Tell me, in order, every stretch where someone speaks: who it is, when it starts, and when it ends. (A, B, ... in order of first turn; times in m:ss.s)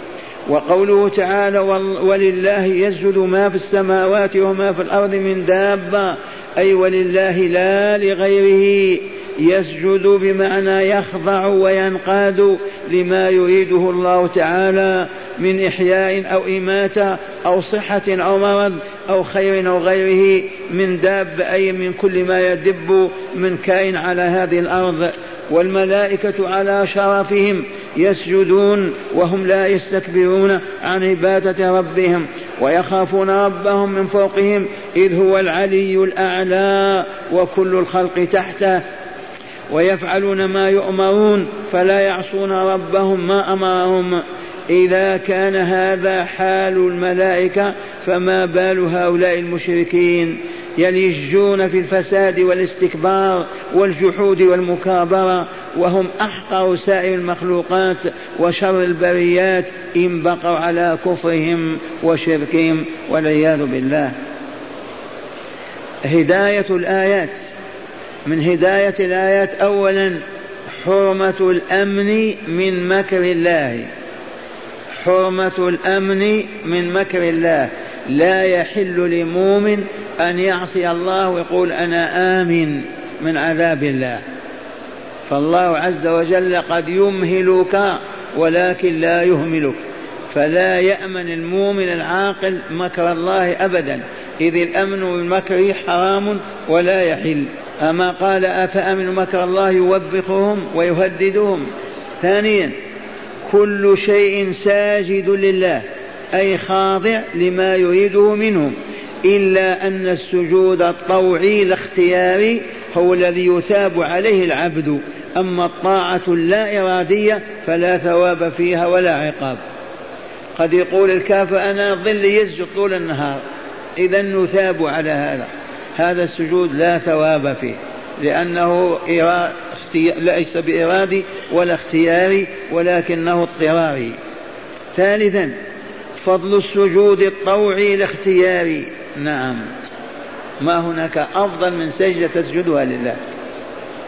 0:00.5-0:38.8 A
0:39.7-1:04.1 A
1:06.0-1:07.5 A
1:08.2-1:10.2 A
1:10.8-1:13.9 A
1:15.0-1:24.2 A
1:25.3-1:29.8 A
1:30.3-1:41.6 A
1:42.2-1:42.7 A
1:43.4-1:59.6 A
2:00.6-2:03.4 A
2:04.0-2:14.2 A
2:14.9-2:15.5 A
2:16.2-2:19.6 A
2:20.6-2:23.2 A